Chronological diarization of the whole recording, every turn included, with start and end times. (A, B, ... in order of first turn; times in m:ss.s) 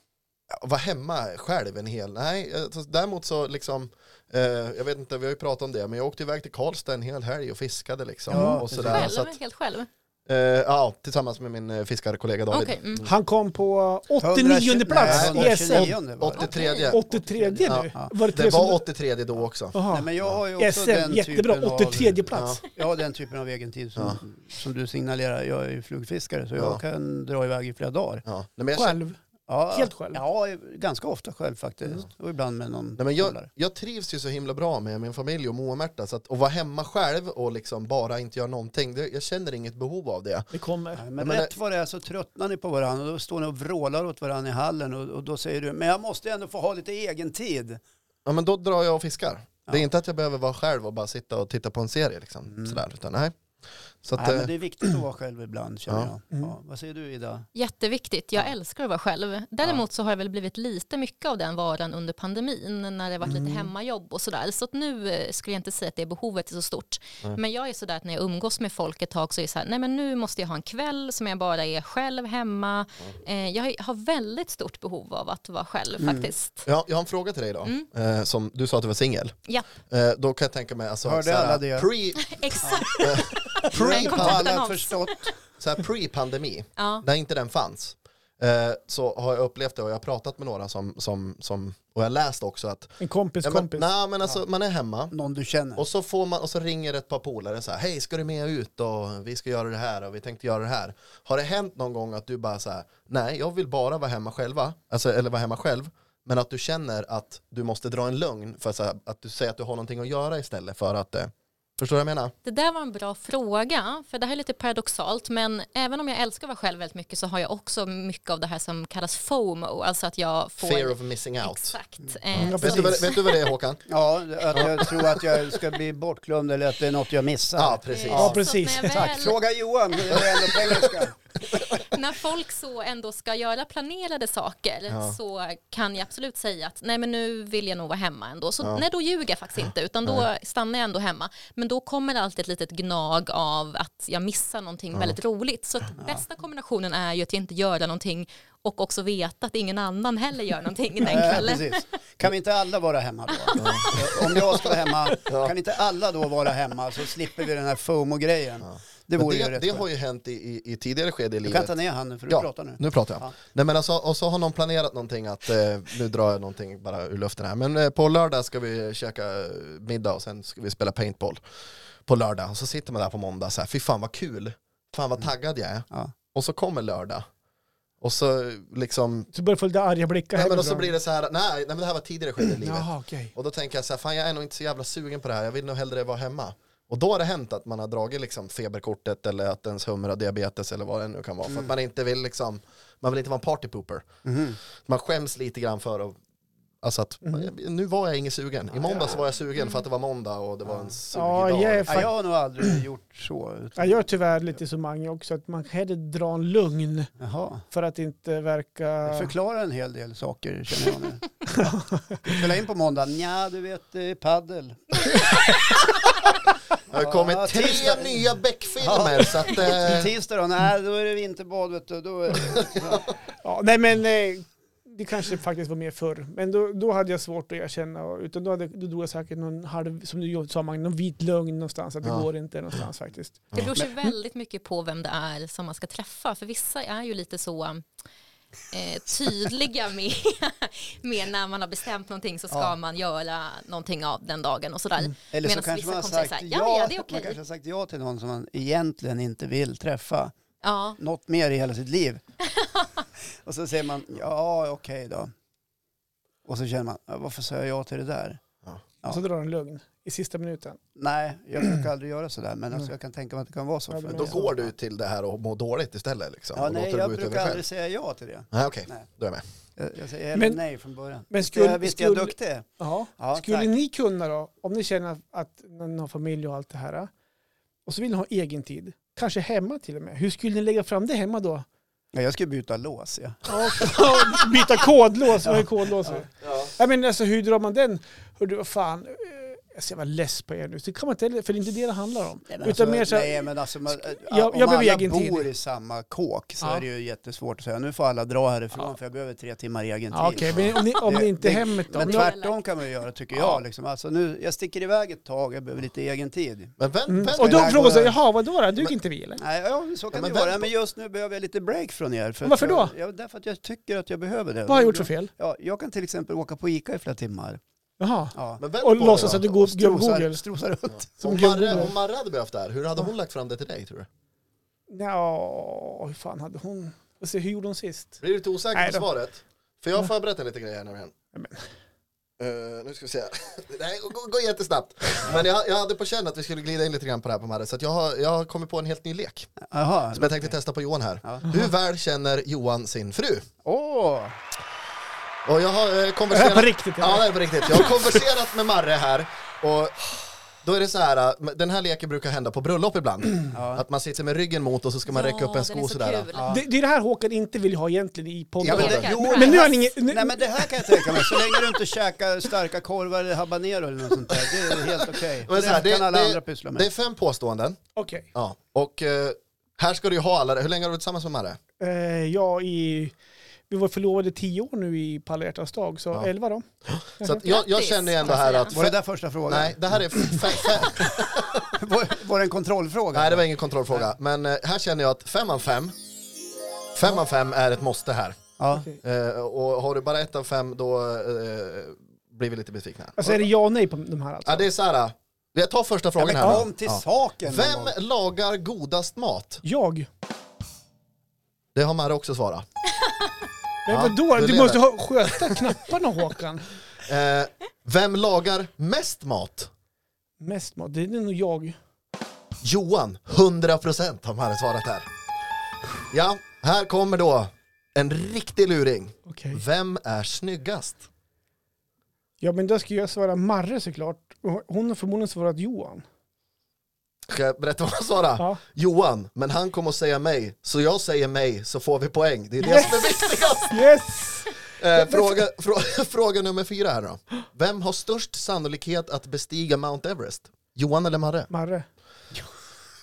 0:00.5-0:09.3 A
0:08.3-0:08.6 B
0:08.3-0:09.1 C
0:08.8-0:09.9 D
0:10.3-0:13.1 A
0:12.5-0:13.0 D
0:13.0-0:18.8 B
0:14.2-0:16.5 C
0:15.0-0:17.0 A
0:16.4-0:16.9 D
0:17.1-0:18.1 C
0:17.6-0:20.4 A
0:19.7-0:22.6 B
0:19.9-0:28.2 C
0:22.3-0:22.6 A
0:28.2-0:29.0 A
0:28.7-0:29.2 B
0:29.5-0:33.5 C
0:29.7-0:30.2 B
0:33.0-0:40.5 A
0:40.5-0:41.0 B
0:40.9-0:47.8 C
0:41.2-0:41.5 A
0:48.2-0:53.3 A
0:52.5-0:52.8 C
0:54.0-0:54.5 A
0:54.2-0:57.5 C
0:55.9-0:56.1 A
0:57.5-1:16.6 D
1:03.2-1:03.7 B
1:16.0-1:16.3 C
1:16.6-1:24.5 A
1:21.0-1:21.9 C
1:22.2-1:25.3 D
1:22.6-1:22.9 C
1:23.7-1:25.3 C
1:25.6-1:35.1 A
1:26.8-1:27.0 D
1:33.0-1:33.9 B
1:35.1-1:35.8 C
1:35.8-1:52.3 A
1:52.4-2:03.5 D
2:00.6-2:01.8 A
2:02.3-2:03.8 A
2:02.3-2:03.1 B
2:03.9-2:07.8 C
2:04.5-2:05.2 A
2:07.6-2:08.4 A
2:07.9-2:09.4 D
2:08.1-2:09.1 B
2:08.8-2:11.2 C
2:11.7-2:31.8 D
2:14.9-2:15.2 A
2:26.0-2:26.2 C
2:31.0-2:39.9 C
2:33.5-2:34.2 D
2:33.6-2:34.0 A
2:35.3-2:35.5 A
2:38.6-2:41.7 A
2:41.4-2:43.3 C
2:42.3-2:51.4 A
2:52.0-2:57.3 A
2:58.0-2:59.3 A
2:59.3-3:00.9 B
3:00.3-3:14.2 A
3:02.4-3:03.3 B
3:14.2-3:14.6 C
3:14.8-3:16.2 A
3:16.8-3:22.1 A
3:18.8-3:19.2 C
3:19.6-3:19.8 D
3:20.6-3:20.9 C
3:21.1-3:22.1 B
3:21.9-3:24.1 C
3:23.8-3:27.1 B
3:27.2-3:27.6 C
3:27.7-3:29.3 B
3:29.0-3:31.3 C
3:31.5-3:32.4 B
3:32.2-3:35.0 C
3:36.9-3:40.1 A
3:36.9-3:38.3 C
3:38.8-3:43.0 C
3:43.4-3:53.4 B
3:52.0-3:52.8 A
3:53.5-3:57.8 D
3:58.7-4:07.4 D
4:02.5-4:02.7 C
4:05.3-4:10.3 C
4:10.6-4:11.0 D
4:11.0-4:12.2 C
4:12.5-4:13.0 D
4:13.4-4:15.3 C
4:16.4-4:18.4 C
4:19.1-4:20.8 B
4:21.0-4:24.5 C
4:23.9-4:24.6 B
4:24.1-4:27.6 A
4:26.5-4:29.1 C
4:28.5-4:29.4 A
4:29.8-4:33.7 C
4:30.3-4:30.6 B
4:31.3-4:37.1 B
4:37.8-4:41.6 B
4:42.1-4:44.8 C
4:43.5-4:55.5 B
4:45.4-4:46.2 C
4:46.4-4:46.7 A
4:52.5-5:08.2 C
5:00.1-5:02.3 B
5:01.9-5:02.6 D
5:03.3-5:03.6 B
5:06.8-5:08.1 A
5:07.1-5:09.4 B
5:09.4-5:17.6 C
5:10.1-5:10.7 A
5:12.4-5:12.9 B
5:14.7-5:15.3 B
5:18.0-5:20.4 B
5:18.3-5:21.9 C
5:18.6-5:19.4 A
5:21.0-5:24.1 A
5:21.2-5:21.9 B
5:24.9-5:28.2 B
5:28.2-5:31.1 A
5:28.7-5:29.0 B
5:31.3-5:31.6 B
5:32.4-5:39.5 A
5:39.6-5:40.6 C
5:40.1-5:43.4 A
5:41.5-5:41.7 B
5:43.6-5:44.4 C
5:45.4-5:50.0 A
5:46.3-5:47.9 B
5:50.6-5:56.3 A
5:53.5-5:53.8 C
5:55.1-5:56.5 D
5:56.3-5:56.6 C
5:56.5-6:01.7 B
5:58.6-5:59.1 A
5:58.6-6:06.9 C
5:58.7-5:59.9 D
6:04.4-6:07.8 A
6:05.6-6:05.8 B
6:08.0-6:08.3 B
6:08.3-6:11.6 A
6:11.8-6:13.1 B
6:13.7-6:16.6 B
6:16.8-6:21.8 A
6:17.3-6:18.8 D
6:18.7-6:20.0 C
6:21.7-6:24.0 C
6:23.1-6:25.9 A
6:26.9-6:28.4 A
6:28.6-6:28.9 C
6:29.0-6:33.4 A
6:33.2-6:34.7 B
6:34.4-6:39.6 A
6:36.2-6:38.0 C
6:39.6-6:40.1 B
6:41.7-6:42.6 A
6:43.8-6:46.8 B
6:43.9-6:45.7 A
6:47.0-6:49.7 A
6:50.4-6:51.8 B
6:52.6-6:55.1 A
6:56.1-7:01.0 A
6:59.3-6:59.6 B
7:02.4-7:06.0 B
7:07.3-7:13.8 A
7:12.6-7:13.0 B
7:13.6-7:15.4 B
7:14.8-7:21.5 A
7:21.5-7:21.8 B